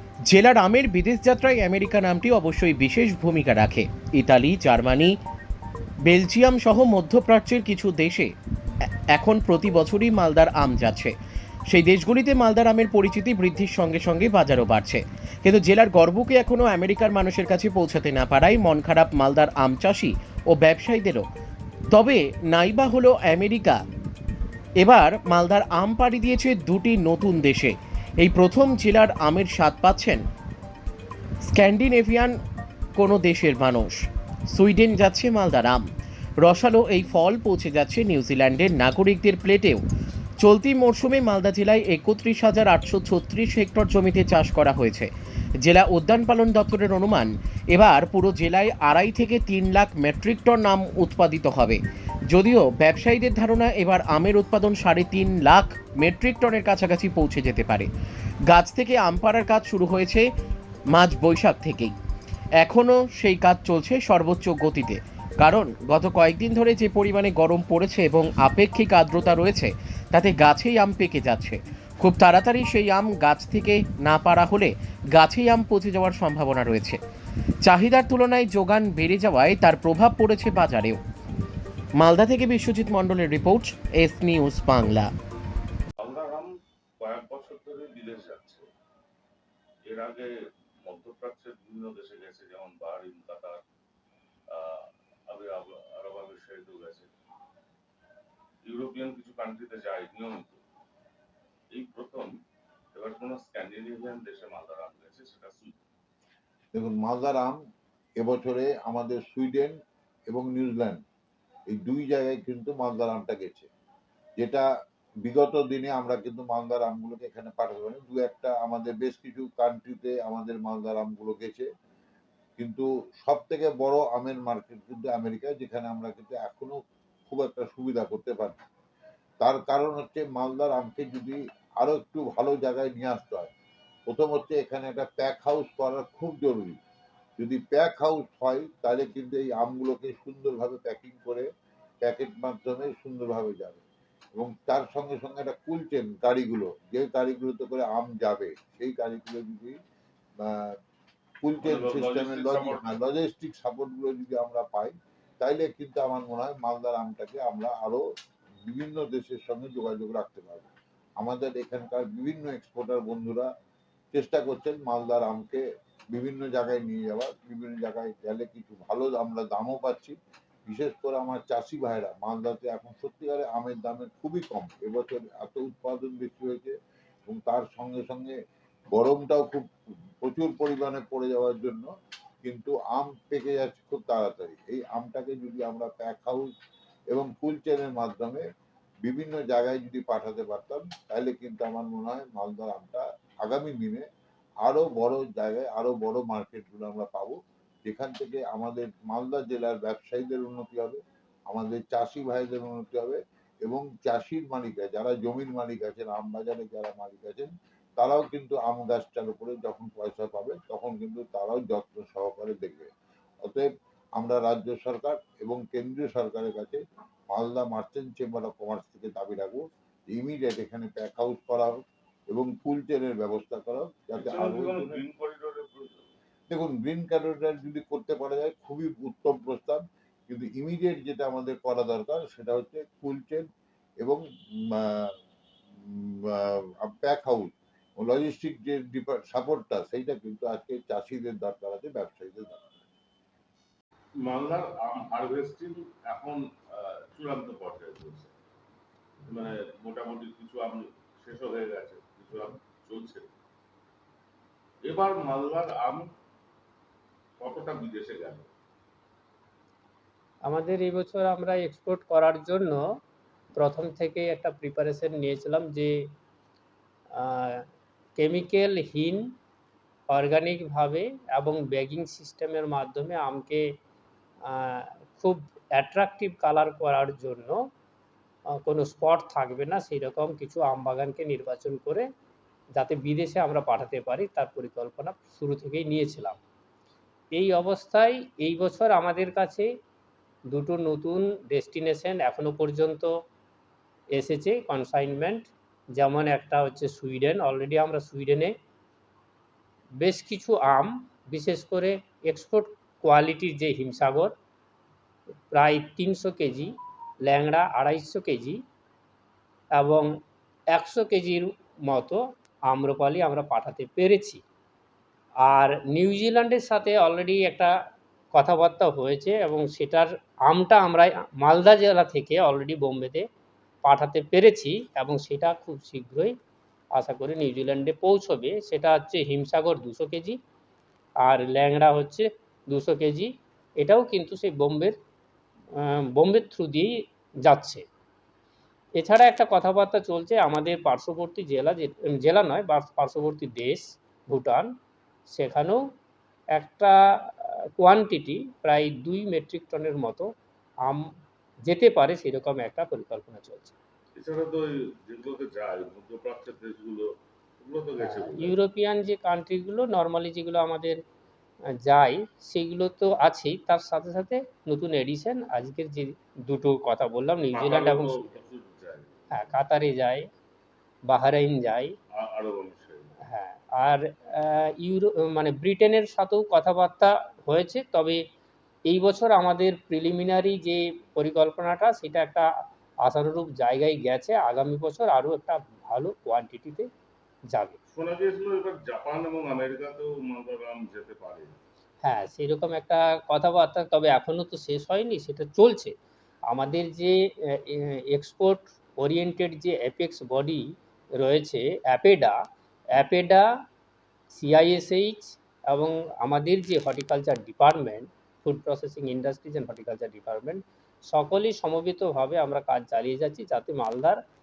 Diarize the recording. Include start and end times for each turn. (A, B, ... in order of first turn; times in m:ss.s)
0:00.3-0:05.2 A
0:06.0-0:08.3 A
0:08.8-0:11.1 A
0:11.7-0:21.3 A
0:21.9-0:23.8 A
0:24.8-0:30.2 A
0:31.4-0:32.4 A
0:32.9-0:35.8 A
0:36.4-0:39.8 A
0:40.4-0:45.1 A
0:45.6-0:57.9 A
0:58.5-1:00.3 A
1:00.9-1:01.9 A
1:02.6-1:17.0 A
1:17.6-1:21.0 A
1:22.0-1:25.1 A
1:26.0-1:28.6 B
1:29.8-1:30.3 B
1:30.8-1:33.6 B
1:34.5-1:37.1 B
1:38.6-1:40.6 B
1:41.7-1:42.3 B
1:42.9-1:45.8 B
1:46.7-1:47.6 C
1:48.2-1:49.8 C
1:50.3-1:51.0 C
1:51.7-1:53.7 C
1:54.4-1:54.6 C
1:55.2-2:01.7 C
2:02.6-2:06.8 C
2:07.3-2:08.6 C
2:09.4-2:13.5 C
2:14.1-2:16.8 C
2:17.4-2:21.5 C
2:22.0-2:23.8 C
2:24.4-2:29.8 C
2:30.4-2:30.7 C
2:31.4-2:38.0 C
2:31.6-2:33.0 B
2:38.6-2:43.5 C
2:44.1-2:56.7 C
2:57.3-2:58.4 C
2:58.9-2:59.7 C
3:00.2-3:01.9 C
3:02.4-3:06.5 C
3:07.1-3:08.4 C
3:09.0-3:14.0 C
3:14.6-3:32.9 C
3:33.4-3:36.8 C
3:37.3-3:45.0 C
3:44.2-3:45.9 B
3:46.5-3:53.4 C
3:54.0-3:55.1 C
3:55.8-4:02.6 C
4:04.2-4:08.3 B
4:09.3-4:13.3 B
4:14.8-4:16.1 B
4:17.4-4:18.5 B
4:20.4-4:22.8 D
4:23.6-4:25.9 D
4:27.1-4:27.6 D
4:28.2-4:29.2 D
4:30.1-4:33.6 D
4:34.4-4:37.7 D
4:38.6-4:42.0 D
4:42.7-4:46.4 D
4:47.3-4:49.7 D
4:50.5-4:53.1 D
4:54.1-4:58.5 D
5:00.0-5:04.3 D
5:05.5-5:06.7 D
5:07.2-5:08.6 D
5:09.8-5:10.1 D
5:10.7-5:14.4 D
5:15.4-5:17.7 D
5:18.3-5:23.2 D
5:23.8-5:26.3 D
5:26.9-5:30.4 D
5:31.2-5:34.9 D
5:35.7-5:37.8 D
5:39.0-5:44.7 D
5:45.3-5:45.8 D
5:46.6-5:50.3 D
5:51.6-5:53.7 D
5:54.2-5:57.1 B
5:57.6-5:58.6 B
5:58.0-6:01.0 D
6:01.8-6:08.3 D
6:07.5-6:09.1 B
6:09.3-6:10.2 D
6:11.1-6:11.9 D
6:12.1-6:13.1 B
6:13.3-6:18.2 D
6:18.9-6:22.5 D
6:23.0-6:26.9 D
6:27.5-6:27.8 D
6:27.9-6:31.6 B
6:32.0-6:35.9 D
6:36.5-6:40.6 D
6:41.2-6:42.4 D
6:42.9-6:43.4 D
6:44.3-6:54.2 D